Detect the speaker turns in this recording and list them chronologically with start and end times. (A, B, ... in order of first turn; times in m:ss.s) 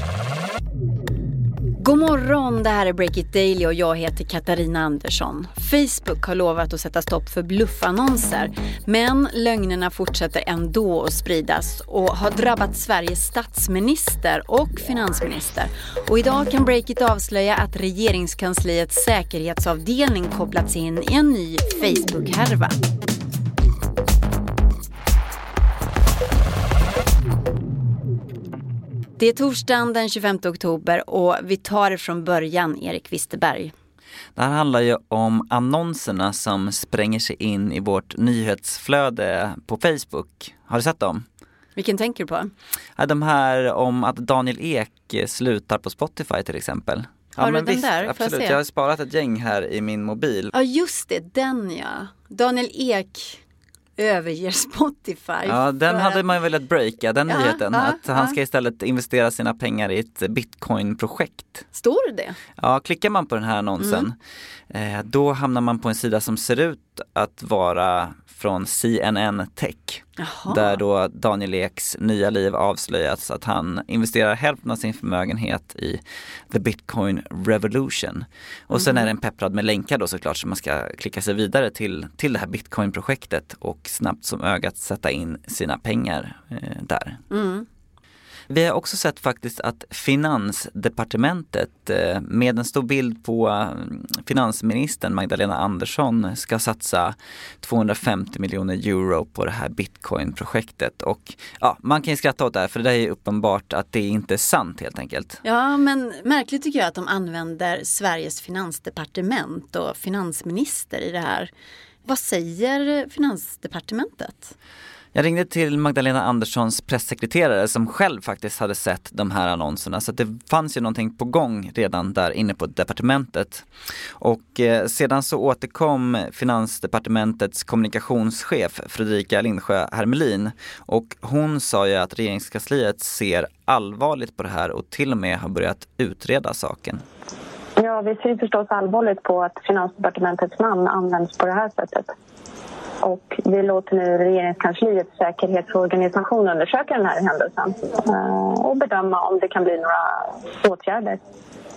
0:01.8-0:22.8 A
0:29.2-0:33.7 A
0:34.4-0:41.2 B
0:41.8-0:42.5 A
0:43.0-0:50.5 B
0:47.4-0:48.6 A
0:50.5-0:53.4 A
0:54.0-0:56.2 A
0:55.4-1:01.6 B
0:57.3-0:58.3 A
1:01.7-1:02.4 A
1:02.6-1:04.2 B
1:04.7-1:27.2 B
1:10.2-1:10.8 A
1:18.7-1:19.1 A
1:27.3-1:27.6 A
1:28.5-1:45.4 B
1:45.4-1:51.5 A
1:52.0-1:54.5 A
1:55.1-2:03.6 B
2:04.2-2:17.0 B
2:17.8-2:22.1 C
2:23.0-2:31.2 C